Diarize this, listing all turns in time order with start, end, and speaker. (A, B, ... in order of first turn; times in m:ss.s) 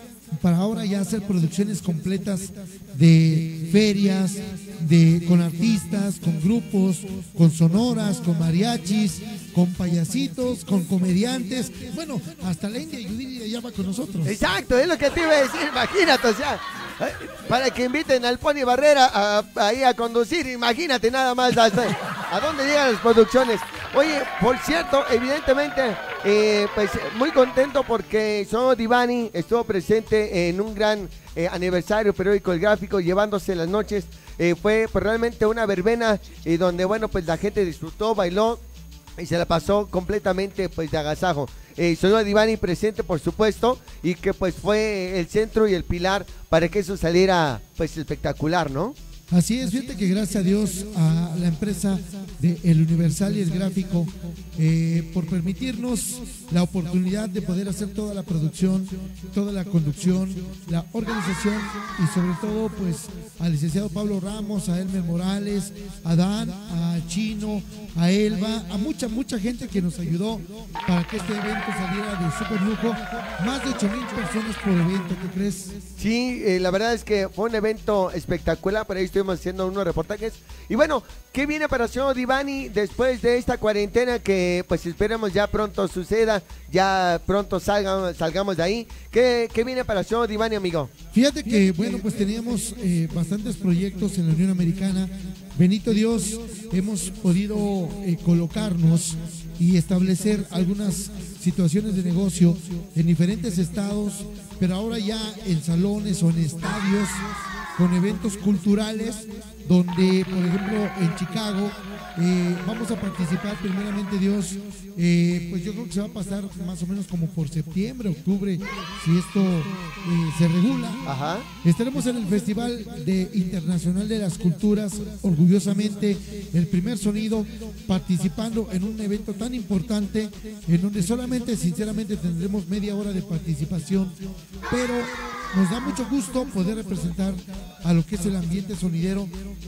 0:00.3-0:14.4 A
0:14.3-0:38.6 B
0:39.2-0:49.0 B
0:49.3-1:15.8 A
1:16.0-1:30.9 B
1:31.1-2:01.0 A
2:01.0-2:01.5 B
2:01.6-2:14.2 A
2:14.7-2:19.3 A